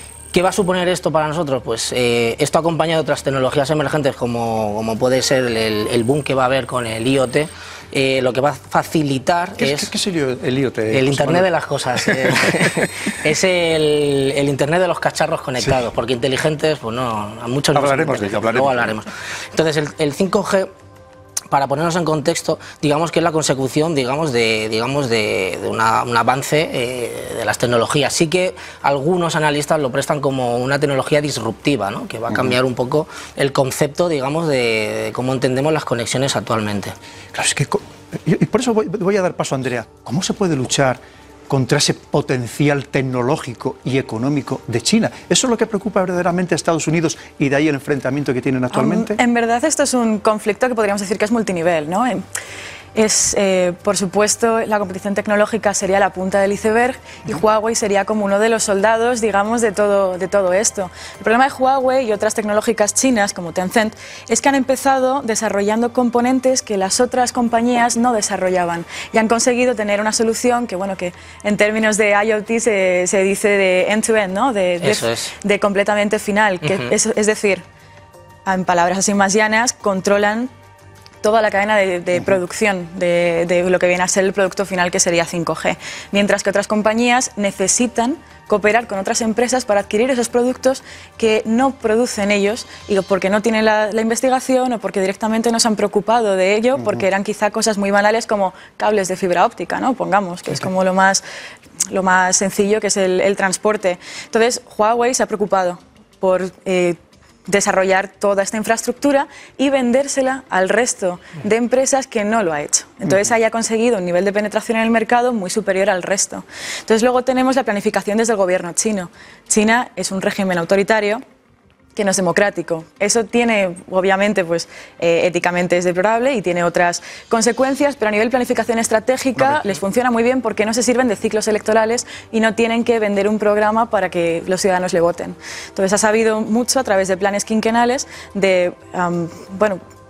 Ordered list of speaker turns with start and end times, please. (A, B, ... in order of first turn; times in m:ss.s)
0:00.3-0:09.9 A
0:09.6-0:11.5 B
0:10.9-0:20.7 A
0:12.0-0:12.7 B
0:17.7-0:19.0 B
0:21.5-0:36.9 A
0:37.3-0:49.2 B
0:48.7-0:52.2 C
0:52.9-1:17.6 C
1:14.8-1:15.3 A
1:16.6-1:16.9 A
1:18.4-1:20.5 C
1:21.2-1:41.2 C
1:36.7-1:37.0 B
1:41.9-2:01.2 C
2:02.0-2:19.8 C
2:09.4-2:09.7 B